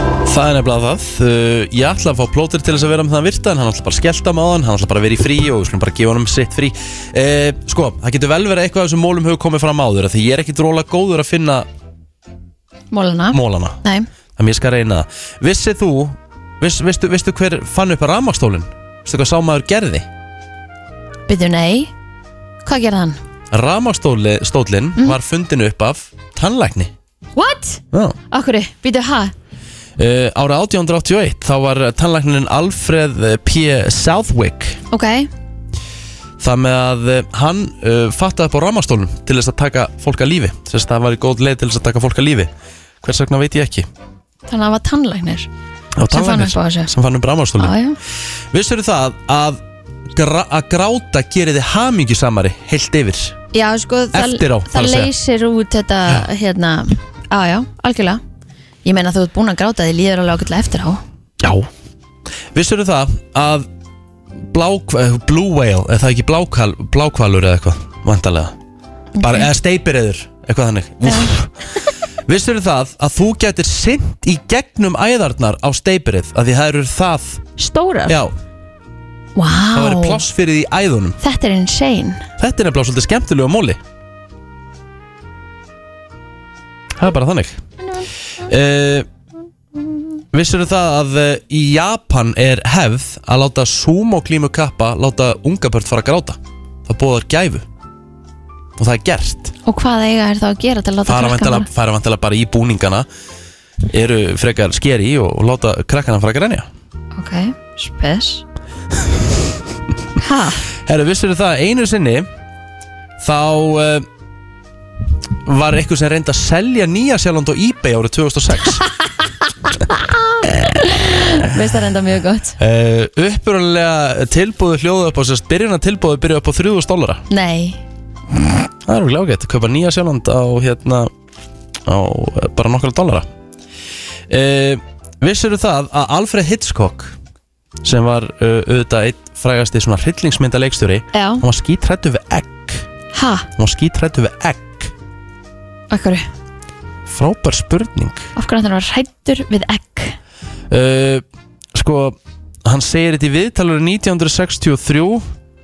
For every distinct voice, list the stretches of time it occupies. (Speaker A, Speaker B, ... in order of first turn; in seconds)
Speaker A: 0.3-11.7, 13.3-13.8, 14.4-20.1, 23.5-26.9, 30.0-34.8, 36.4-42.5, 43.0-43.9, 46.0-47.8, 48.5-49.6, 50.1-53.4, 54.1-55.1, 61.4-61.7, 62.5-63.6, 64.5-68.5, 69.2-71.5, 72.3-77.4, 79.7-81.2, 82.4-83.8, 87.0-87.6, 88.5-89.1, 90.3-97.6, 98.8-99.5, 101.1-103.1, 103.9-106.7, 110.8-112.3, 113.2-114.1, 115.5-118.8, 122.6-127.2, 128.8-131.1, 131.9-133.3, 134.3-137.1, 137.8-142.8, 143.6-144.9, 147.1-148.3, 150.7-151.2, 151.7-155.2
Speaker B: 12.9-14.1, 21.3-21.9, 22.6-23.2, 27.4-29.3, 34.9-35.3, 44.5-45.5, 46.1-46.9, 47.6-48.0, 53.5-58.2, 58.9-61.0, 69.2-69.5, 71.0-71.3, 77.6-78.2, 79.3-80.2, 81.2-82.2, 87.8-88.1, 99.7-101.7, 107.1-108.4, 110.2-110.6, 120.8-122.6, 127.3-127.8, 141.1-141.4, 143.1-143.5, 145.9-146.2, 148.3-150.2